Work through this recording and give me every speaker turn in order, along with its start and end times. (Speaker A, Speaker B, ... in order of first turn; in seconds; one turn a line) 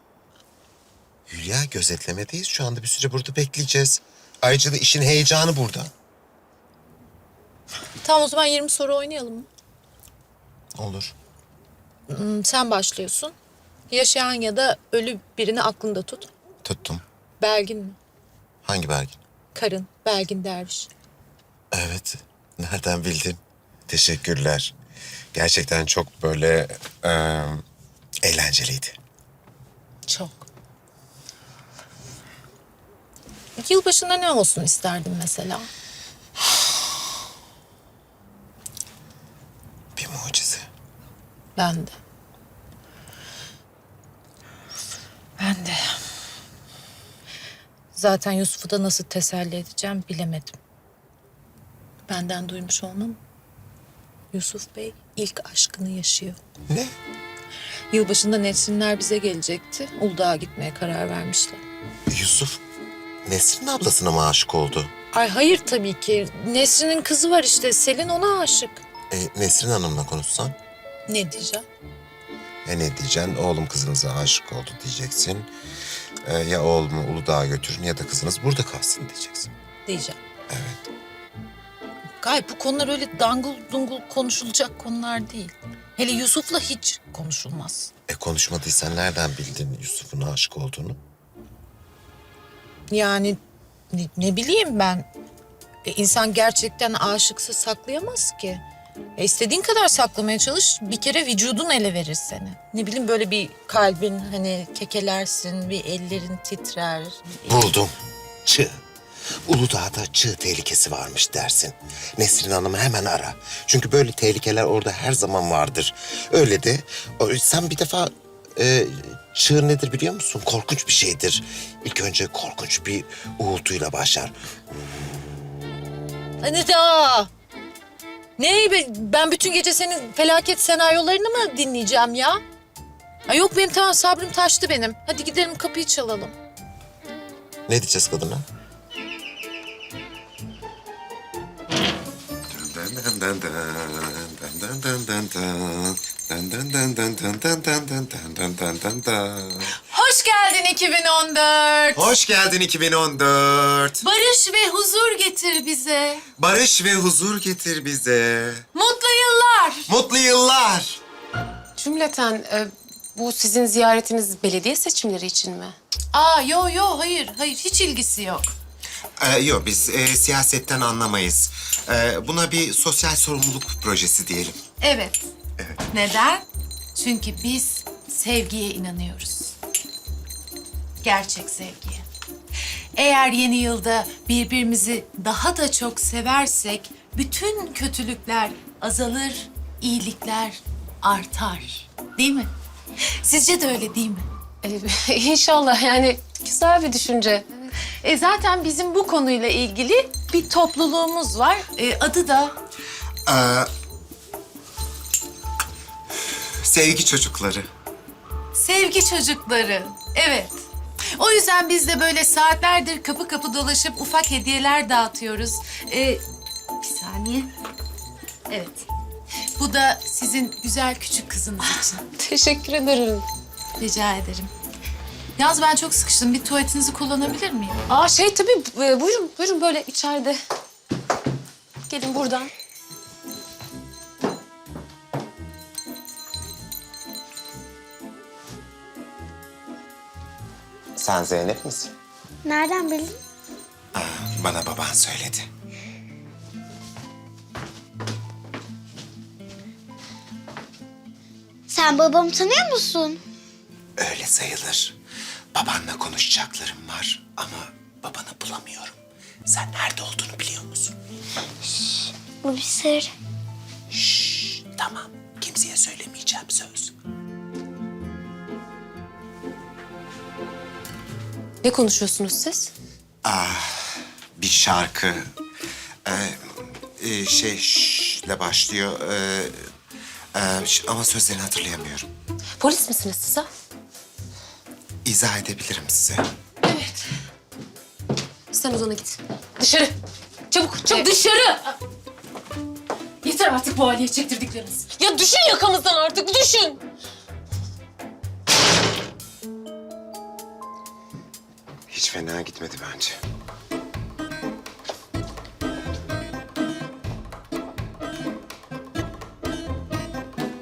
Speaker A: 1.3-5.9
Speaker B: 8.0-9.5
Speaker A: 10.8-11.1
Speaker B: 12.1-13.3
Speaker B: 13.9-16.3
Speaker A: 16.6-17.0
Speaker B: 17.4-18.0
Speaker A: 18.6-19.2
Speaker B: 19.5-20.9
Speaker A: 21.7-24.7
Speaker A: 25.3-27.6
Speaker A: 28.2-28.9
Speaker B: 30.1-30.5
Speaker B: 33.6-35.7
Speaker A: 40.0-40.7
Speaker B: 41.5-42.0
Speaker B: 45.4-46.0
Speaker B: 47.9-50.6
Speaker B: 52.1-53.2
Speaker B: 54.3-56.4
Speaker A: 56.7-56.9
Speaker B: 57.9-61.6
Speaker A: 62.1-62.6
Speaker A: 63.2-64.9
Speaker B: 65.1-68.8
Speaker A: 69.1-70.5
Speaker B: 71.1-71.7
Speaker A: 72.6-75.5
Speaker A: 76.2-79.5
Speaker B: 79.8-80.2
Speaker A: 80.5-80.8
Speaker B: 82.2-87.9
Speaker A: 88.1-91.0
Speaker B: 92.9-93.4
Speaker B: 93.9-95.1
Speaker B: 95.8-98.6
Speaker B: 99.2-107.3
Speaker A: 107.5-107.9
Speaker A: 108.5-108.8
Speaker A: 109.5-124.3
Speaker B: 126.4-127.3
Speaker B: 128.4-132.4
Speaker B: 133.3-136.3
Speaker A: 137.7-138.4
Speaker A: 142.5-149.8
Speaker B: 149.8-152.1
Speaker A: 151.9-154.0
Speaker B: 154.0-156.2
Speaker A: 156.4-158.6
Speaker B: 158.7-159.9
Speaker A: 159.9-161.0
Speaker C: 161.8-165.8
Speaker B: 166.1-168.5
Speaker A: 169.2-174.6
Speaker B: 174.8-175.2
Speaker B: 175.9-179.5
Speaker B: 181.0-182.1
Speaker B: 182.9-192.5
Speaker B: 193.2-194.2
Speaker C: 194.6-197.8
Speaker B: 198.0-202.6
Speaker A: 203.3-203.7
Speaker A: 206.3-207.7
Speaker B: 208.5-216.2
Speaker B: 216.8-217.5
Speaker B: 218.5-218.8
Speaker B: 219.6-222.0
Speaker C: 222.1-223.2
Speaker B: 223.8-224.5
Speaker B: 225.4-227.8
Speaker C: 227.9-230.4
Speaker C: 231.9-232.5
Speaker A: 240.9-241.9
Speaker D: 242.4-243.2
Speaker A: 243.9-245.4
Speaker D: 251.7-253.2
Speaker A: 254.0-254.9
Speaker A: 255.5-260.9
Speaker D: 261.7-263.1
Speaker A: 263.9-266.9
Speaker C: 271.6-272.7
Speaker A: 273.2-275.3
Speaker A: 276.1-279.6
Speaker A: 280.3-282.1
Speaker C: 282.6-283.5
Speaker A: 285.0-286.2
Speaker C: 288.5-289.9
Speaker C: 290.5-291.6
Speaker B: 290.9-291.7
Speaker B: 293.2-294.9
Speaker C: 294.8-296.8
Speaker A: 301.9-303.2